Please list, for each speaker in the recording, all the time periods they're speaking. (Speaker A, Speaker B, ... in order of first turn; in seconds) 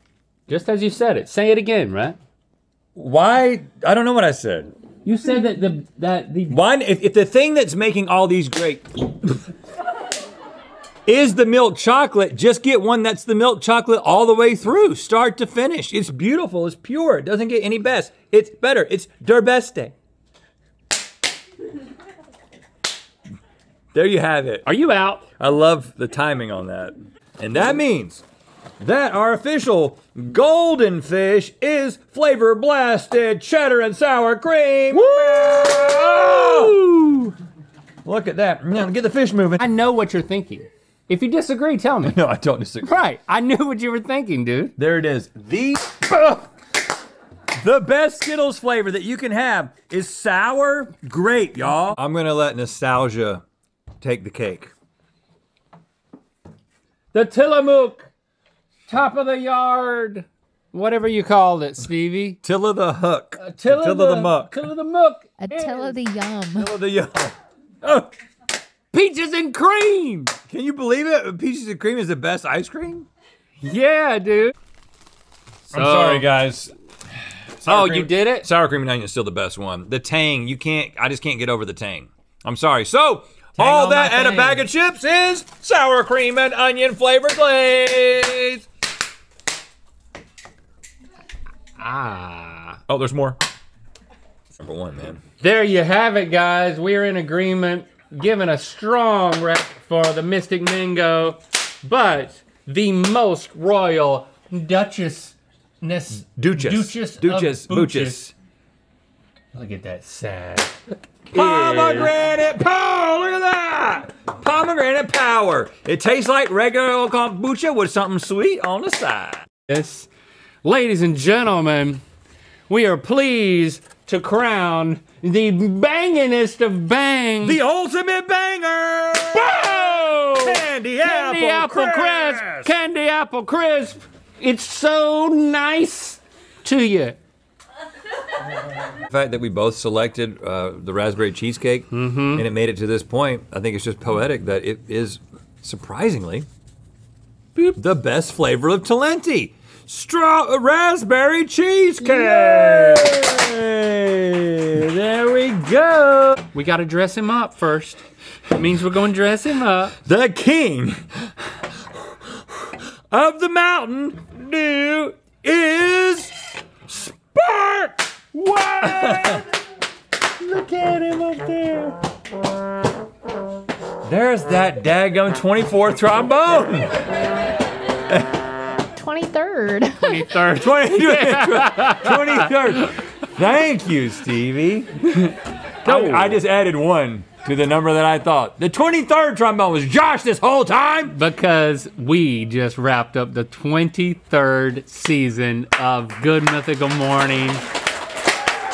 Speaker A: 0.5-2.2, 5.0-6.6, 24.6-25.2, 34.9-37.3, 39.6-42.2, 42.8-44.7, 57.1-58.1, 58.9-62.4, 63.4-66.0, 68.9-70.3, 73.6-74.5, 75.7-76.3, 77.6-78.5, 83.6-84.7, 91.8-92.8, 95.4-108.2, 109.5-110.8, 111.3-112.1, 119.7-120.1, 120.6-122.0, 122.7-127.6, 129.3-137.2, 141.9-142.4, 152.0-153.2, 156.5-159.9, 168.8-169.4, 180.0-182.7, 185.8-186.4, 191.1-197.6
Speaker B: 2.9-4.7, 6.5-9.2, 11.1-19.9, 23.9-24.7, 25.4-28.2, 28.8-36.9, 38.0-39.6, 42.0-42.9, 44.8-46.5, 47.6-53.4, 54.0-54.7, 62.4-64.5, 66.5-68.1, 70.5-73.1, 75.7-76.7, 77.6-88.7, 92.9-93.4, 94.6-95.2, 106.2-108.3, 111.3-119.5, 127.4-132.7, 139.1-146.5, 147.6-156.4, 160.0-161.3, 161.9-166.4, 166.9-169.4, 170.4-172.0, 174.0-177.0, 178.1-178.4, 180.5-185.3, 185.8-191.2
Speaker C: 65.4-66.7, 178.9-180.3